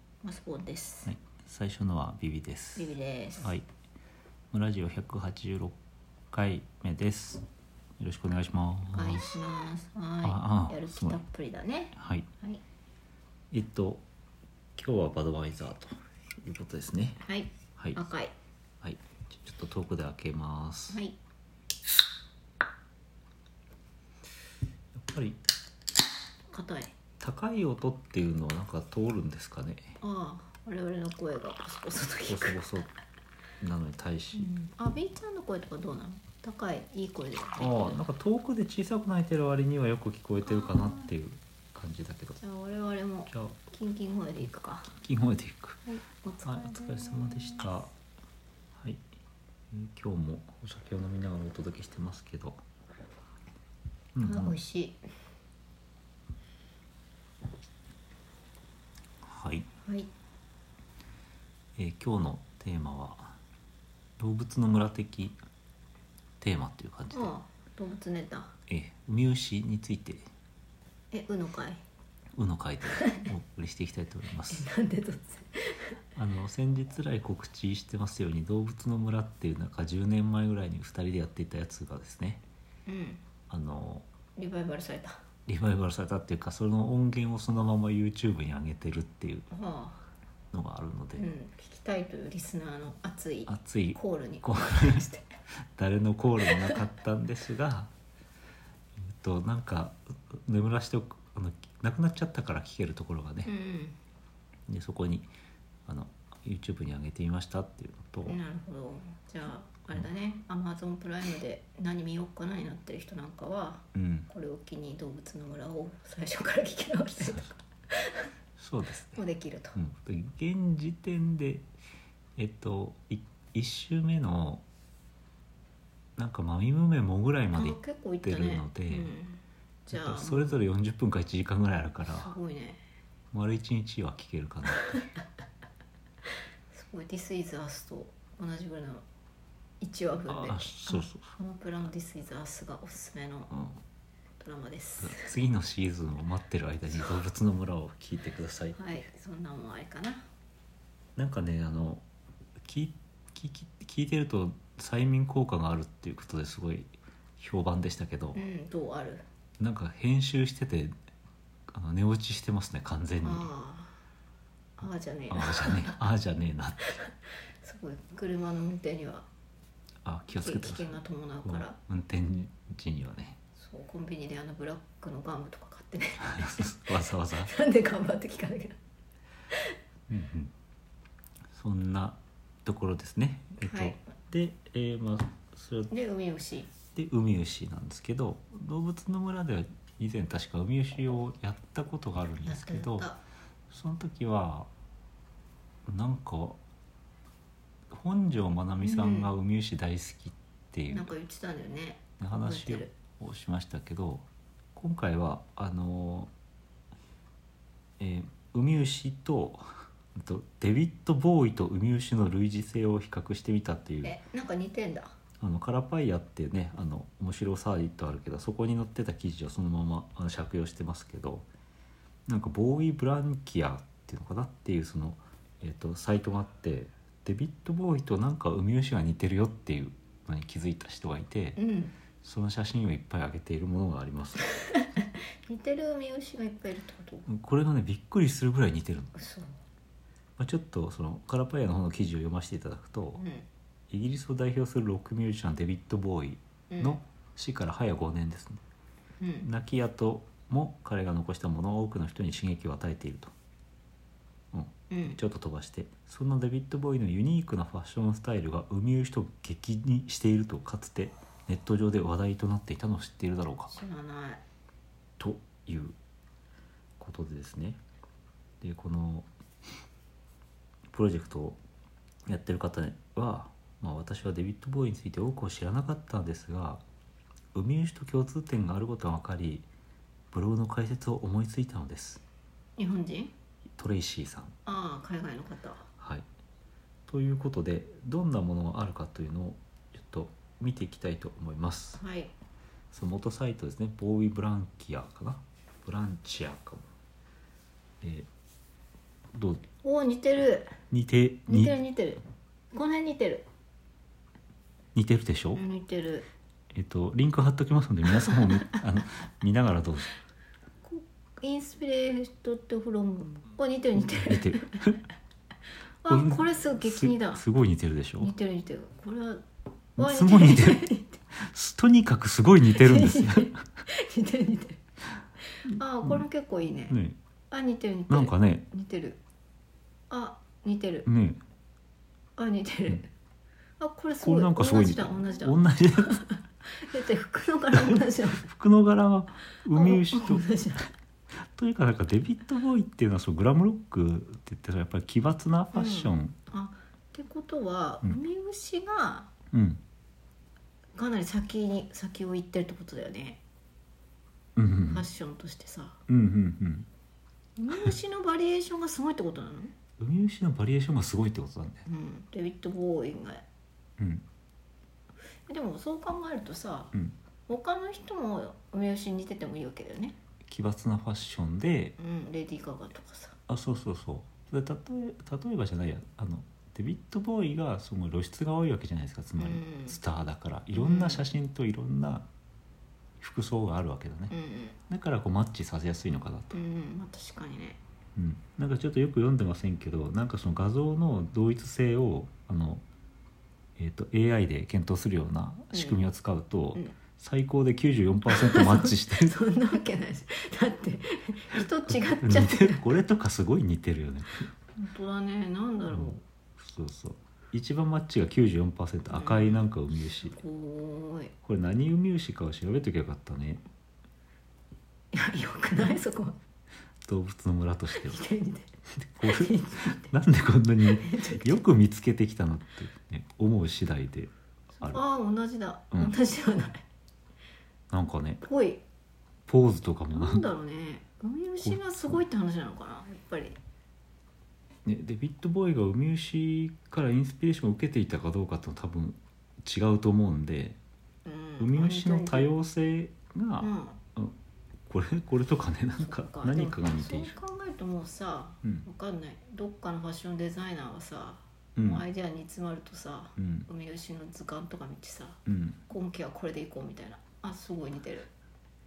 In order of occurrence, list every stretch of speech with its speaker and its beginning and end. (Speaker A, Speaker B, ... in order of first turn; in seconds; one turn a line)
Speaker A: 0.2-1.1
Speaker B: 1.1-3.7
Speaker A: 2.8-3.5
Speaker B: 4.5-5.8
Speaker B: 6.3-7.4
Speaker B: 8.0-9.4
Speaker A: 8.9-12.6
Speaker B: 10.2-11.2
Speaker B: 11.9-12.3
Speaker B: 13.5-14.0
Speaker B: 14.8-17.2
Speaker A: 17.2-18.3
Speaker B: 17.8-18.0
Speaker B: 18.8-21.0
Speaker A: 20.9-21.2
Speaker B: 24.9-25.4
Speaker A: 26.5-26.9
Speaker B: 27.2-30.0
Speaker A: 30.0-32.6
Speaker B: 32.2-32.9
Speaker B: 33.6-34.5
Speaker A: 34.3-38.0
Speaker B: 37.6-42.4
Speaker A: 40.5-41.1
Speaker A: 42.4-44.9
Speaker B: 43.3-43.6
Speaker B: 44.9-45.9
Speaker A: 45.9-47.7
Speaker B: 46.5-47.9
Speaker B: 48.8-49.0
Speaker B: 49.7-52.6
Speaker B: 54.1-54.6
Speaker A: 54.2-55.0
Speaker B: 59.2-59.7
Speaker A: 59.9-60.1
Speaker B: 61.8-63.4
Speaker B: 64.2-65.4
Speaker B: 66.4-67.3
Speaker A: 67.1-68.5
Speaker B: 68.7-70.2
Speaker A: 71.1-71.8
Speaker B: 72.3-74.7
Speaker A: 73.0-73.2
Speaker A: 74.5-75.9
Speaker B: 76.2-82.4
Speaker A: 82.9-83.2
Speaker B: 83.5-84.1
Speaker A: 84.4-85.2
Speaker B: 85.5-89.5
Speaker A: 89.5-90.0
Speaker B: 90.5-91.3
Speaker A: 91.2-95.2
Speaker B: 93.5-95.1
Speaker B: 95.8-97.9
Speaker A: 96.5-96.8
Speaker B: 99.0-103.5
Speaker A: 103.5-104.0
Speaker B: 104.7-105.3
Speaker B: 105.9-108.4
Speaker A: 108.3-118.3
Speaker B: 113.9-114.3
Speaker B: 117.2-117.5
Speaker B: 118.6-119.2
Speaker A: 119.1-119.8
Speaker B: 119.8-121.7
Speaker B: 122.4-124.6
Speaker B: 126.2-129.1
Speaker A: 127.5-130.6
Speaker B: 129.9-132.4
Speaker A: 132.1-132.8
Speaker B: 133.3-135.0
Speaker A: 136.7-139.1
Speaker A: 139.8-143.6
Speaker B: 140.3-141.3
Speaker B: 143.5-143.8
Speaker A: 144.4-145.3
Speaker B: 145.0-148.8
Speaker A: 148.8-150.3
Speaker B: 151.2-152.1
Speaker B: 152.6-158.4
Speaker A: 158.3-159.2
Speaker B: 159.6-160.9
Speaker B: 161.7-163.5
Speaker A: 163.2-164.0
Speaker A: 164.8-166.0
Speaker B: 165.3-167.0
Speaker A: 167.6-169.3
Speaker B: 170.1-173.4
Speaker A: 170.4-171.8
Speaker A: 173.6-178.8
Speaker B: 176.2-177.5
Speaker B: 180.1-180.5
Speaker B: 181.5-185.9
Speaker A: 183.6-184.0
Speaker A: 185.9-186.7
Speaker B: 186.9-193.1
Speaker A: 192.4-193.2
Speaker B: 193.7-194.7
Speaker B: 195.9-196.6
Speaker B: 197.9-201.1
Speaker A: 198.8-199.3
Speaker A: 200.9-202.9
Speaker B: 202.2-206.3
Speaker B: 208.0-214.2
Speaker A: 214.0-215.1
Speaker B: 215.4-221.5
Speaker B: 222.3-231.6
Speaker A: 231.6-231.9
Speaker B: 232.2-234.5
Speaker A: 234.8-237.3
Speaker B: 237.3-239.2
Speaker A: 239.2-239.5
Speaker B: 240.4-243.2
Speaker A: 243.2-243.5
Speaker B: 243.9-248.6
Speaker A: 246.7-247.0
Speaker A: 249.2-249.5
Speaker B: 249.4-253.3
Speaker B: 254.5-263.8
Speaker A: 254.9-255.2
Speaker A: 263.7-264.4
Speaker B: 265.2-266.0
Speaker B: 267.0-267.8
Speaker B: 268.6-269.3
Speaker B: 270.9-271.6
Speaker B: 272.3-276.8
Speaker B: 277.5-279.7
Speaker B: 280.3-282.2
Speaker A: 282.8-283.3
Speaker B: 283.8-284.6
Speaker A: 284.6-285.9
Speaker B: 286.0-286.3
Speaker B: 287.1-292.0
Speaker A: 292.0-292.3
Speaker B: 292.9-296.9
Speaker B: 298.0-298.3
Speaker B: 299.3-299.7
Speaker A: 299.8-300.8
Speaker B: 300.9-301.8
Speaker A: 301.5-303.5
Speaker B: 304.9-305.6
Speaker A: 305.5-306.3
Speaker B: 306.7-310.1
Speaker A: 310.8-314.7
Speaker B: 314.2-315.0
Speaker A: 316.0-317.4
Speaker B: 316.1-318.3
Speaker A: 318.2-319.4
Speaker A: 320.0-321.2
Speaker B: 320.0-323.7
Speaker A: 322.7-324.8
Speaker A: 325.7-327.0
Speaker B: 325.7-326.2
Speaker B: 326.9-327.2
Speaker A: 327.5-329.2
Speaker B: 328.1-328.7
Speaker A: 330.1-331.1
Speaker B: 331.1-331.4
Speaker A: 332.4-333.1
Speaker A: 333.8-338.4
Speaker B: 334.2-336.2
Speaker B: 337.8-340.5
Speaker A: 339.7-340.9
Speaker B: 341.4-346.4
Speaker A: 345.7-349.3
Speaker B: 349.5-349.8
Speaker A: 350.9-353.4
Speaker B: 354.6-355.1
Speaker A: 354.9-356.0
Speaker B: 356.1-356.9
Speaker A: 357.6-359.8
Speaker B: 360.0-361.9
Speaker A: 361.9-363.4
Speaker B: 364.0-364.2
Speaker A: 365.5-366.9
Speaker A: 367.5-370.2
Speaker B: 370.5-372.0
Speaker A: 372.0-373.4
Speaker B: 373.5-382.3
Speaker A: 379.4-380.0
Speaker A: 380.7-381.2
Speaker B: 383.2-384.3
Speaker A: 384.3-384.8
Speaker B: 384.9-386.6
Speaker A: 386.5-387.8
Speaker B: 388.2-392.8
Speaker B: 393.8-399.4
Speaker A: 395.7-396.0
Speaker A: 398.3-402.9
Speaker B: 401.9-404.5
Speaker A: 404.8-406.2
Speaker B: 405.9-410.4
Speaker A: 409.1-409.6
Speaker A: 410.3-411.3
Speaker B: 411.4-413.6
Speaker A: 415.1-416.4
Speaker B: 417.1-418.3
Speaker A: 417.9-418.7
Speaker B: 418.9-425.0
Speaker A: 419.2-420.1
Speaker A: 420.9-421.6
Speaker A: 424.8-426.8
Speaker B: 427.9-428.4
Speaker A: 428.4-428.8
Speaker B: 429.5-430.4
Speaker A: 430.1-433.6
Speaker B: 431.6-432.2
Speaker B: 434.9-440.8
Speaker A: 441.2-442.5
Speaker B: 441.6-444.4
Speaker A: 443.6-444.0
Speaker B: 444.9-447.4
Speaker A: 446.0-458.3
Speaker B: 451.8-452.1
Speaker B: 453.4-453.7
Speaker B: 455.5-455.8